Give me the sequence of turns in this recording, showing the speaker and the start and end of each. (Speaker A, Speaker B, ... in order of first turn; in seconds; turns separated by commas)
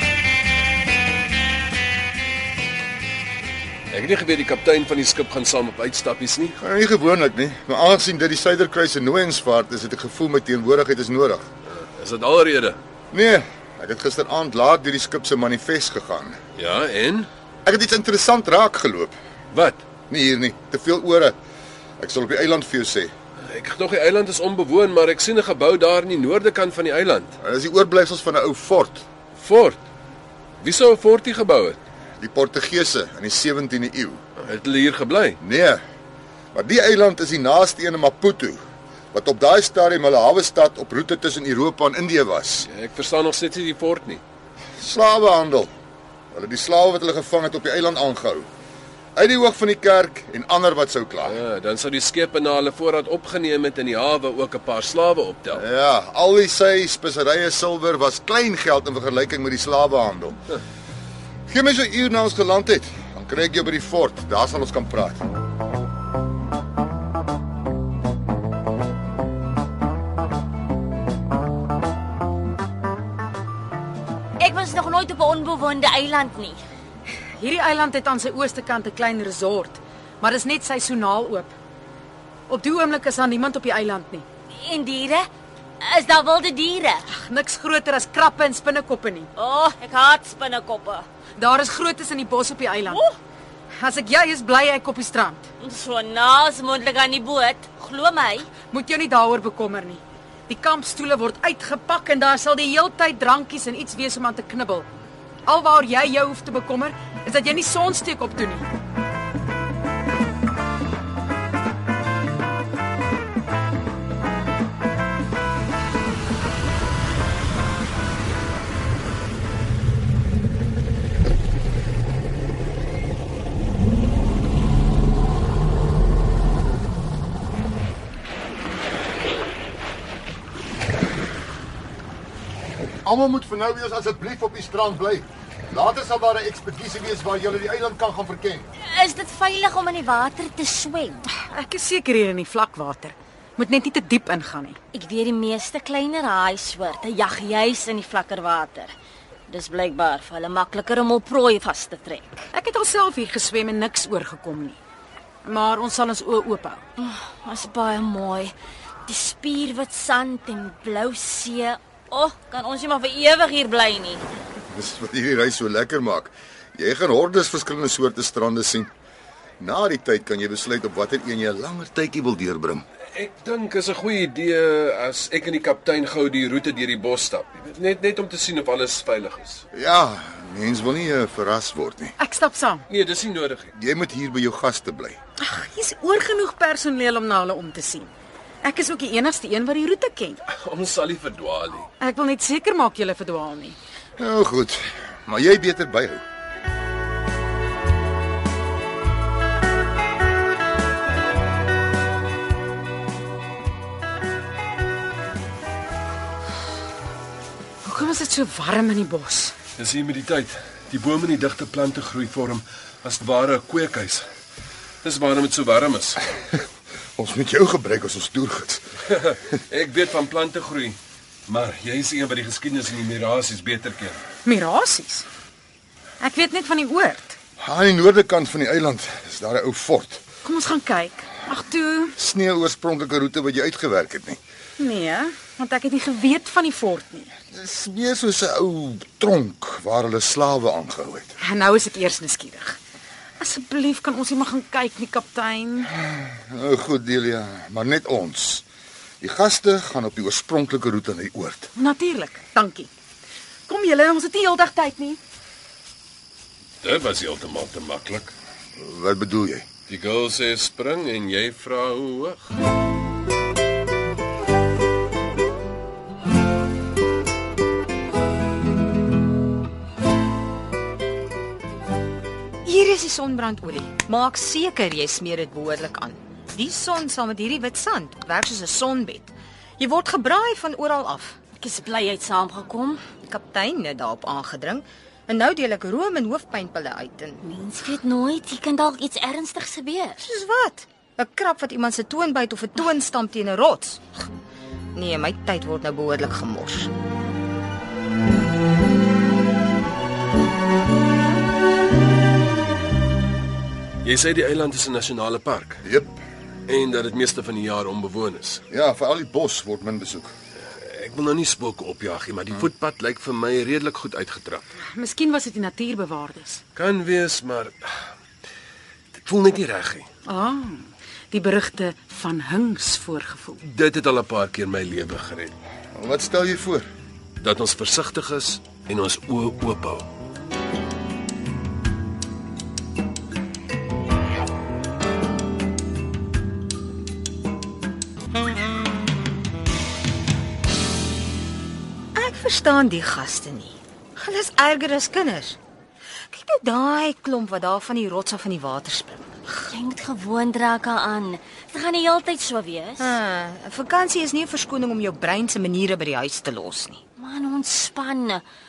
Speaker A: 3.9-6.6, Speaker B: 6.6-11.5, Speaker A: 11.7-12.8, Speaker B: 13.1-16.4, Speaker A: 16.6-17.3, Speaker B: 17.7-19.2, Speaker A: 19.5-19.8, Speaker B: 20.1-21.4, Speaker B: 22.0-23.1, Speaker A: 23.4-27.3, Speaker B: 27.4-29.1, Speaker A: 29.3-29.8, Speaker A: 30.6-31.8, Speaker B: 32.2-34.2, Speaker A: 34.4-35.4, Speaker B: 35.4-35.8, Speaker B: 36.5-38.6, Speaker B: 39.1-42.7, Speaker A: 42.6-44.2, Speaker B: 44.8-45.7, Speaker B: 46.3-48.5, Speaker B: 49.2-51.4, Speaker A: 51.2-55.6, Speaker B: 55.5-60.4, Speaker B: 61.5-65.2, Speaker C: 74.4-76.6, Speaker D: 77.4-81.5, Speaker D: 82.5-84.2, Speaker C: 84.5-85.3, Speaker C: 85.8-87.1, Speaker D: 87.1-89.3, Speaker C: 89.4-91.1, Speaker D: 91.4-93.0, Speaker C: 92.9-93.1, Speaker D: 93.8-95.5, Speaker C: 95.6-98.5, Speaker D: 98.7-104.9, Speaker D: 105.5-108.7, Speaker B: 133.0-138.7, Speaker C: 138.8-141.2, Speaker D: 141.4-144.8, Speaker C: 144.9-148.9, Speaker C: 149.5-152.4, Speaker D: 152.5-154.8, Speaker D: 155.4-156.8, Speaker C: 157.0-158.5, Speaker C: 159.1-164.2, Speaker B: 164.7-168.9, Speaker B: 169.6-172.8, Speaker A: 173.1-179.6, Speaker B: 179.7-182.2, Speaker D: 182.2-182.8, Speaker A: 182.9-183.7, Speaker B: 183.8-185.2, Speaker D: 185.4-188.1, Speaker D: 188.6-190.4, Speaker A: 190.5-191.9, Speaker D: 192.0-193.8, Speaker B: 194.2-196.2, Speaker D: 207.8-209.5, Speaker A: 209.8-214.2, Speaker A: 215.0-216.2, Speaker B: 217.2-218.8, Speaker A: 219.1-224.2, Speaker D: 224.4-225.2, Speaker D: 226.2-227.4, Speaker B: 227.6-230.2, Speaker D: 230.4-232.2, Speaker B: 232.2-234.4, Speaker D: 234.8-237.3, Speaker B: 237.5-241.3, Speaker D: 241.4-242.8, Speaker D: 243.4-245.9, Speaker B: 245.9-248.6, Speaker B: 249.2-251.7, Speaker D: 251.8-252.9, Speaker D: 253.7-255.2, Speaker A: 256.8-258.3, Speaker B: 258.8-259.7, Speaker A: 259.9-262.4, Speaker E: 272.6-281.4, Speaker C: 281.6-283.0, Speaker E: 283.2-287.4, Speaker C: 287.4-290.2, Speaker E: 290.2-294.2, Speaker E: 294.9-296.9, Speaker A: 304.0-305.8, Speaker B: 305.8-306.2, Speaker A: 306.7-308.6, Speaker B: 308.7-310.3, Speaker A: 310.6-314.7, Speaker D: 314.9-316.6, Speaker A: 316.8-317.9, Speaker A: 319.1-320.1, Speaker D: 320.2-323.6, Speaker A: 323.6-325.6, Speaker B: 325.9-326.9, Speaker A: 327.4-330.1, Speaker E: 342.1-345.6, Speaker E: 346.3-349.4, Speaker C: 349.7-353.1, Speaker E: 353.0-357.0, Speaker C: 357.2-358.4